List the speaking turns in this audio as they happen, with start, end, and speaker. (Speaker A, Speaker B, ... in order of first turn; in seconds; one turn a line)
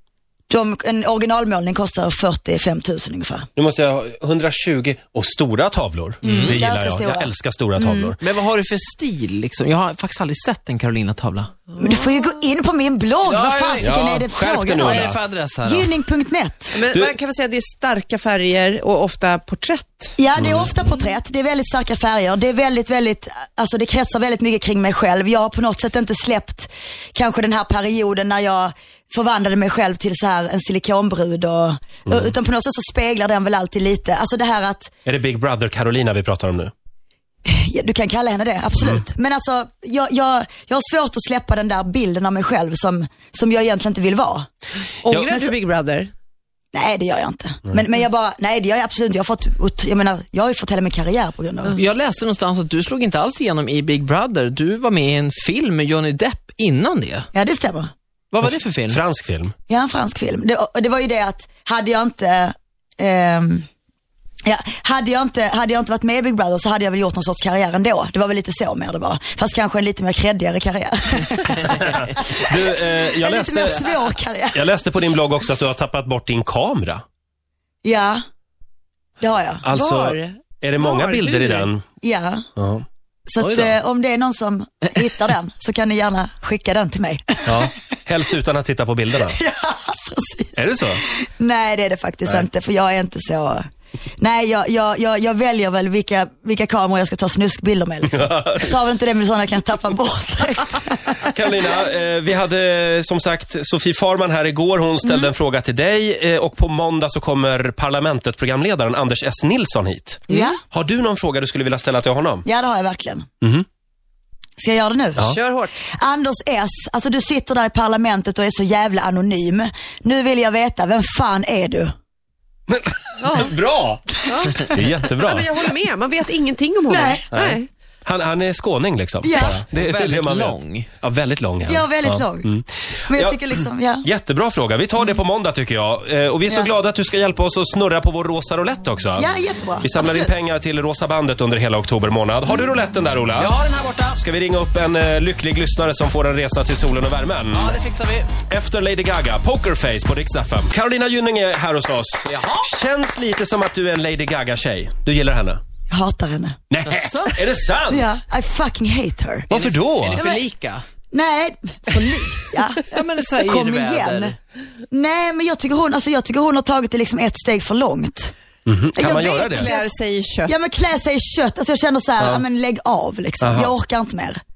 Speaker A: 0.5-3.5
Speaker B: 3.6-8.2
Speaker C: 6.2-6.6
Speaker A: 6.4-8.1
Speaker C: 8.2-11.5
Speaker D: 11.7-12.3
Speaker A: 11.8-16.7
Speaker C: 13.2-13.9
Speaker B: 13.8-15.2
Speaker C: 14.7-15.9
Speaker D: 16.7-20.2
Speaker A: 20.2-34.9
Speaker B: 20.4-20.7
Speaker B: 35.0-36.7
Speaker A: 37.5-44.5
Speaker D: 45.0-46.1
Speaker A: 46.7-51.8
Speaker C: 51.7-57.3
Speaker A: 57.3-57.9
Speaker C: 58.3-59.0
Speaker B: 58.9-59.5
Speaker A: 59.7-63.7
Speaker A: 64.5-74.7
Speaker B: 71.6-73.9
Speaker B: 74.5-77.0
Speaker A: 77.8-78.2
Speaker A: 79.2-79.7
Speaker B: 79.7-81.8
Speaker D: 79.7-81.7
Speaker A: 82.0-82.5
Speaker B: 82.6-82.8
Speaker A: 83.3-87.7
Speaker C: 83.4-83.7
Speaker B: 87.5-89.4
Speaker A: 89.2-93.6
Speaker B: 90.6-91.0
Speaker A: 94.2-101.3
Speaker B: 98.1-98.7
Speaker B: 101.3-112.5
Speaker A: 105.0-105.3
Speaker A: 110.3-110.6
Speaker A: 112.5-113.3
Speaker A: 114.6-115.3
Speaker D: 115.2-115.8
Speaker A: 116.0-121.9
Speaker B: 122.7-125.5
Speaker D: 123.2-123.5
Speaker D: 124.3-127.7
Speaker A: 126.9-127.3
Speaker B: 127.3-139.3
Speaker A: 129.2-129.6
Speaker C: 129.7-130.9
Speaker A: 131.7-132.5
Speaker A: 133.1-134.1
Speaker A: 139.2-140.4
Speaker B: 139.8-143.5
Speaker C: 143.4-144.2
Speaker B: 144.2-147.8
Speaker C: 147.5-148.3
Speaker B: 148.4-155.6
Speaker C: 152.3-152.7
Speaker A: 155.9-156.6
Speaker B: 156.7-158.1
Speaker C: 156.9-157.5
Speaker A: 157.9-159.5
Speaker C: 159.5-160.8
Speaker B: 159.5-160.2
Speaker A: 161.1-164.3
Speaker C: 162.9-164.4
Speaker A: 164.9-168.3
Speaker B: 168.7-169.7
Speaker A: 169.0-169.9
Speaker D: 169.5-170.6
Speaker A: 170.5-174.4
Speaker B: 173.4-173.7